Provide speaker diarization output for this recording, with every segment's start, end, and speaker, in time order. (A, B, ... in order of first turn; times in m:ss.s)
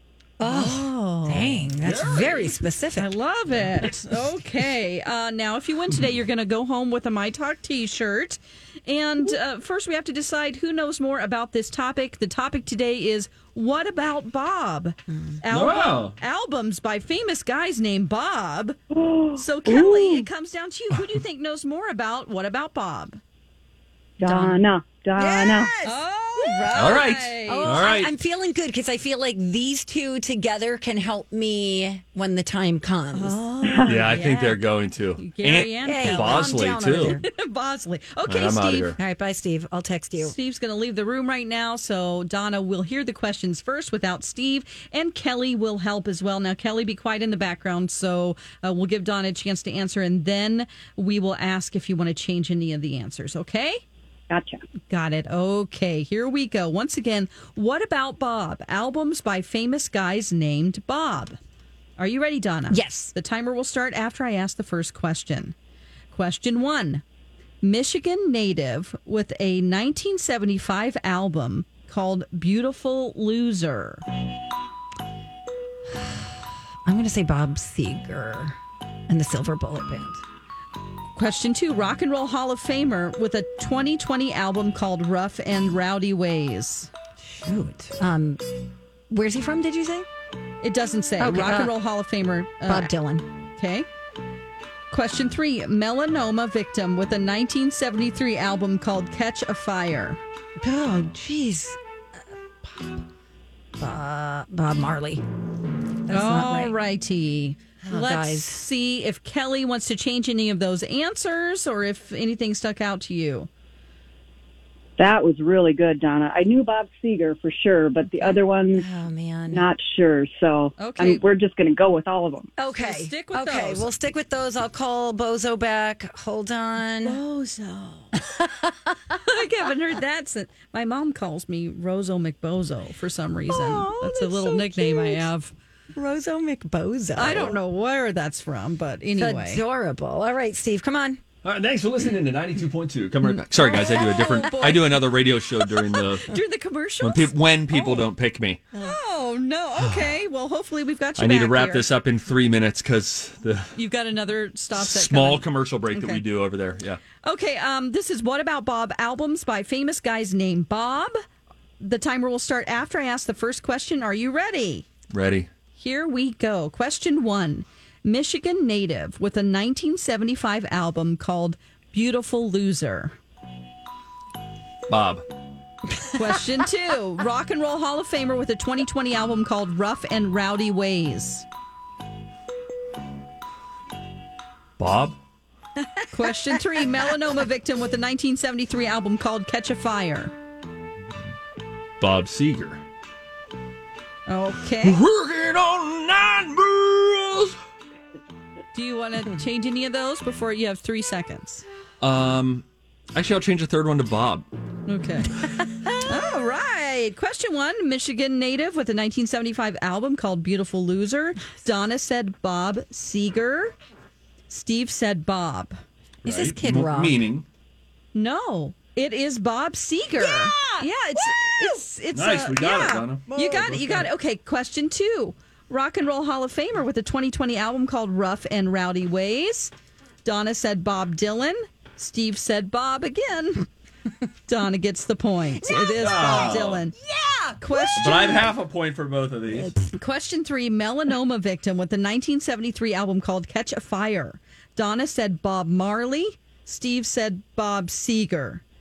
0:00.4-0:03.1 A
0:00.4-0:01.6 B
0:01.8-0:02.5 C
0:03.0-0:18.8 B
0:15.1-0:15.4 A
0:15.5-0:16.2 C
0:18.9-0:20.2 D
0:19.4-0:23.2 B
0:24.2-0:25.7 D
0:24.2-0:24.7 B
0:25.2-0:33.4 A
0:25.8-0:27.8 B
0:26.8-0:28.1 C
0:33.1-0:34.6 B
0:33.7-0:34.0 D
0:33.9-0:37.2 C
0:34.1-0:34.5 A
0:35.2-0:39.0 B
0:35.8-0:37.2 A
0:38.3-0:39.0 C
0:39.0-0:40.3 A
0:40.2-0:53.8 B
0:54.3-0:54.6 D
0:54.9-1:01.4 B
1:02.0-1:05.6 B
1:02.7-1:03.1 A
1:06.1-1:07.0 B
1:07.6-1:14.0 B
1:16.8-1:18.6 A
1:19.1-1:20.2 A
1:21.2-1:26.9 B
1:27.2-1:28.4 A
1:29.1-1:30.1 A
1:30.6-1:32.9 B
1:31.2-1:31.7 A
1:32.6-1:33.3 A
1:33.6-1:33.9 B
1:34.9-1:40.2 B
1:40.6-1:41.8 A
1:42.6-1:43.0 A
1:43.8-1:45.2 A
1:46.1-1:46.7 A
1:46.1-1:53.5 B
1:47.8-1:48.6 A
1:55.0-1:58.9 D
1:58.2-1:59.7 A
1:59.5-2:02.5 D
2:00.8-2:01.2 B
2:02.6-2:07.2 A
2:02.8-2:03.9 B
2:07.0-2:08.2 B
2:08.2-2:09.0 A
2:09.2-2:15.5 B
2:13.5-2:15.3 A
2:15.9-2:17.6 A
2:17.2-2:19.6 B
2:19.2-2:21.2 A
2:21.4-2:26.4 C
2:23.6-2:24.7 A
2:23.6-2:25.0 B
2:26.2-2:28.0 B
2:27.0-2:28.6 C
2:28.8-2:31.9 B
2:31.2-2:33.8 C
2:33.8-2:36.2 B
2:34.8-2:37.0 C
2:37.2-2:41.2 B
2:41.8-2:44.9 B
2:45.1-2:45.5 C
2:45.8-2:53.2 B
2:54.9-2:55.2 C
2:56.0-2:56.6 A
2:56.1-3:01.5 B
3:04.8-3:05.2 C
3:05.8-3:06.9 A
3:06.1-3:10.3 B
3:12.0-3:12.8 C
3:14.3-3:15.0 B
3:14.8-3:17.6 C
3:18.7-3:21.6 B
3:22.0-3:24.5 C
3:24.9-3:25.4 B
3:26.0-3:33.8 B
3:34.5-3:35.8 B
3:36.2-3:37.5 C
3:36.2-3:37.2 A
3:38.1-3:49.7 B
3:40.2-3:41.7 A
3:42.1-3:44.0 C
3:43.3-3:43.8 A
3:50.2-3:53.7 B
3:54.5-3:57.0 B
3:55.6-3:58.5 A
3:56.0-3:56.8 C
3:57.6-3:58.5 B
3:58.0-3:59.7 C
3:59.8-4:08.6 B